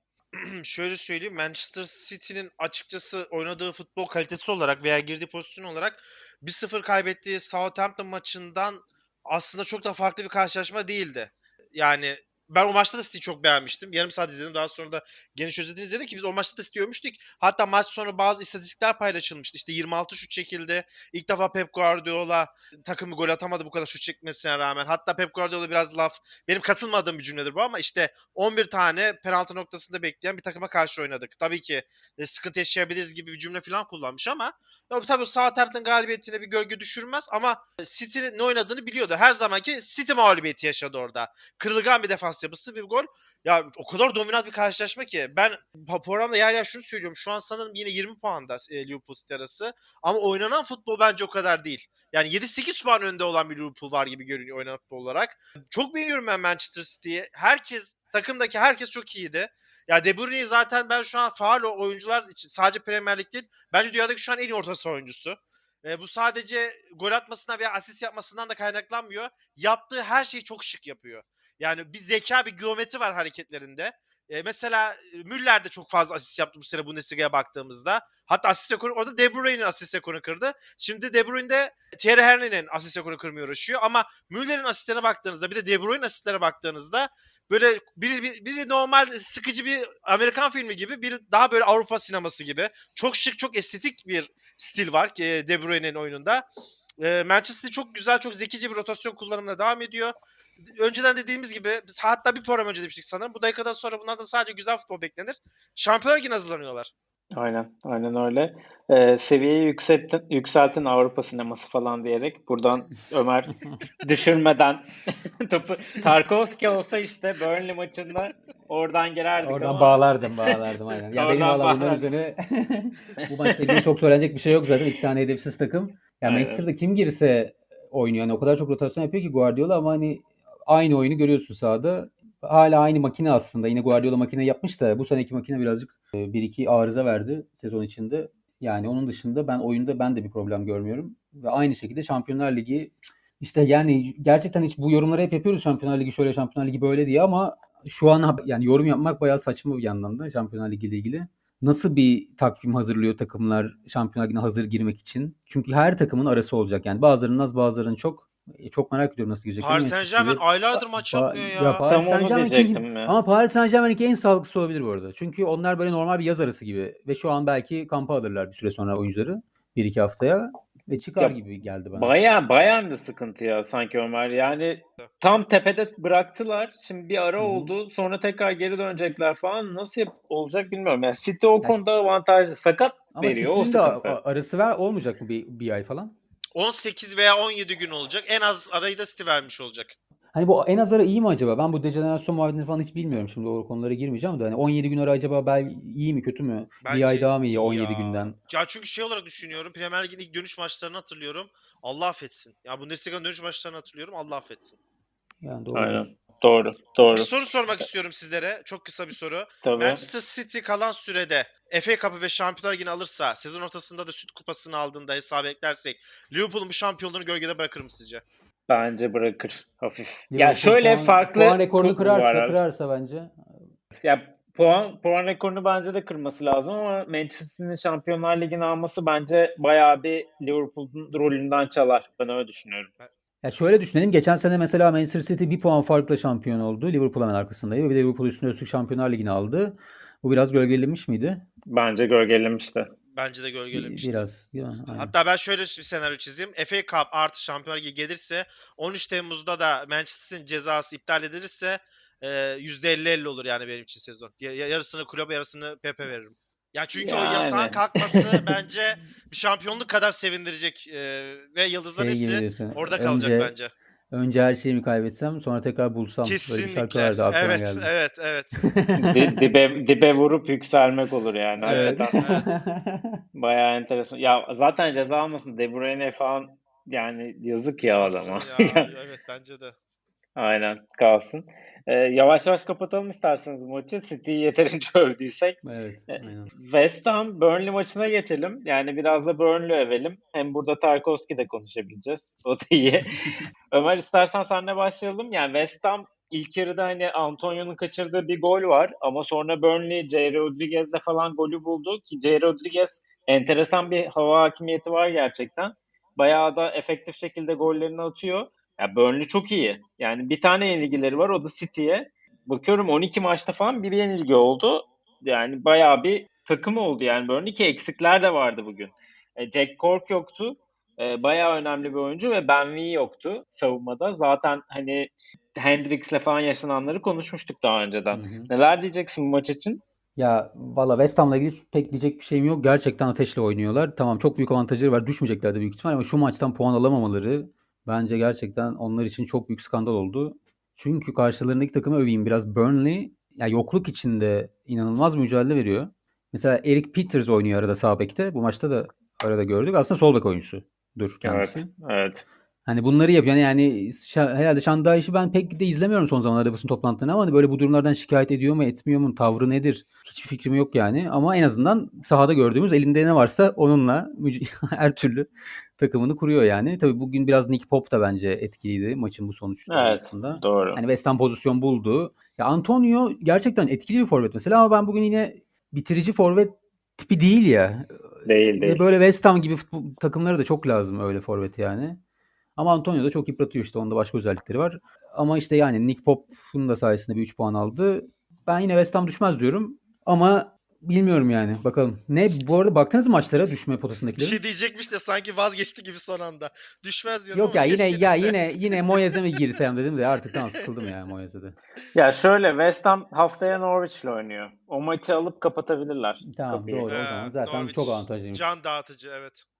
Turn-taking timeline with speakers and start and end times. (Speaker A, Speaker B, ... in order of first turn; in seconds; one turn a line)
Speaker A: 0.4-96.5
Speaker A: 97.0-100.1
Speaker A: 100.7-106.9
Speaker B: 107.3-114.9
Speaker B: 115.4-120.6
Speaker C: 119.4-160.4
Speaker B: 121.1-122.1
Speaker B: 123.2-123.8
Speaker B: 126.2-126.6
Speaker A: 159.6-161.8
Speaker C: 160.9-172.1
Speaker B: 161.8-163.1
Speaker B: 171.9-184.2
Speaker C: 177.4-177.7
Speaker C: 183.1-186.1
Speaker A: 186.5-189.9
Speaker C: 190.3-198.3
Speaker A: 196.8-204.8
Speaker C: 205.4-206.1
Speaker B: 205.7-207.3
Speaker A: 207.1-218.2
Speaker B: 209.6-210.0
Speaker B: 218.7-222.6
Speaker C: 220.3-223.4
Speaker B: 223.9-232.9
Speaker C: 233.4-241.4
Speaker B: 241.7-242.9
Speaker A: 243.1-244.3
Speaker C: 243.7-245.1
Speaker A: 244.9-263.7
Speaker B: 256.9-258.4
Speaker C: 261.9-263.5
Speaker C: 264.1-267.9
Speaker A: 266.2-268.6
Speaker C: 268.6-269.3
Speaker B: 269.0-272.2
Speaker C: 271.6-273.2
Speaker A: 271.6-272.6
Speaker B: 273.3-278.9
Speaker A: 277.9-279.7
Speaker B: 280.4-285.6
Speaker C: 285.6-286.5
Speaker B: 286.5-329.8
Speaker C: 328.1-328.5
Speaker C: 330.2-351.7
Speaker B: 351.2-352.2
Speaker C: 352.7-382.0
Speaker B: 369.7-370.8
Speaker B: 378.2-378.8
Speaker C: 382.6-394.4
Speaker A: 394.2-399.2
Speaker C: 397.3-401.6
Speaker A: 400.4-400.9
Speaker B: 401.9-407.0
Speaker C: 406.2-408.5
Speaker A: 406.9-409.4